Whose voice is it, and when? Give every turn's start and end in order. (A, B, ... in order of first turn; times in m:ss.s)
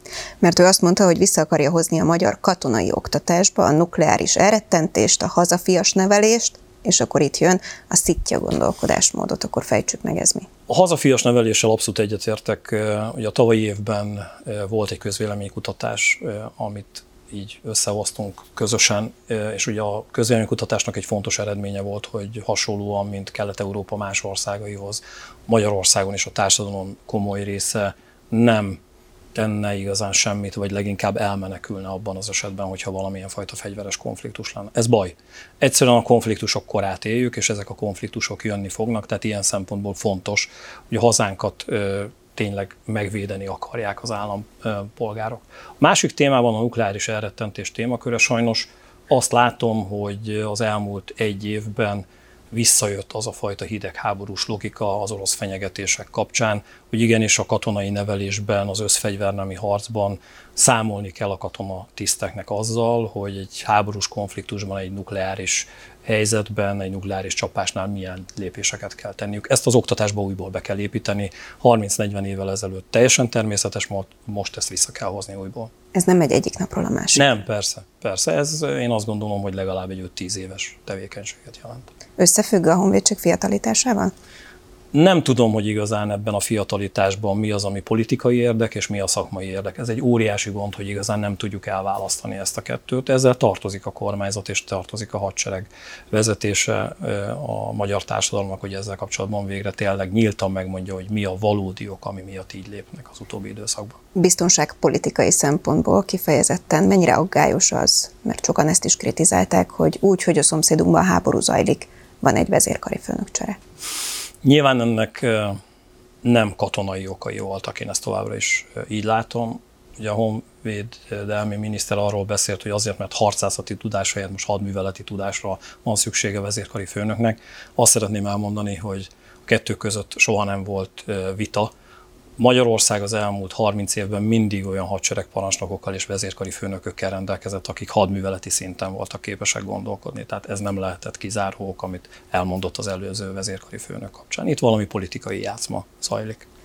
0:00.4-0:10.5 A
0:10.7-0:28.8 B
0:29.3-1:15.7 B
1:15.9-1:17.4 A
1:17.2-1:21.9 B
1:22.2-1:24.1 A
1:24.9-1:44.0 B
1:44.2-1:53.6 A
1:54.4-1:55.6 B
1:56.2-2:11.7 B
2:12.4-2:26.5 B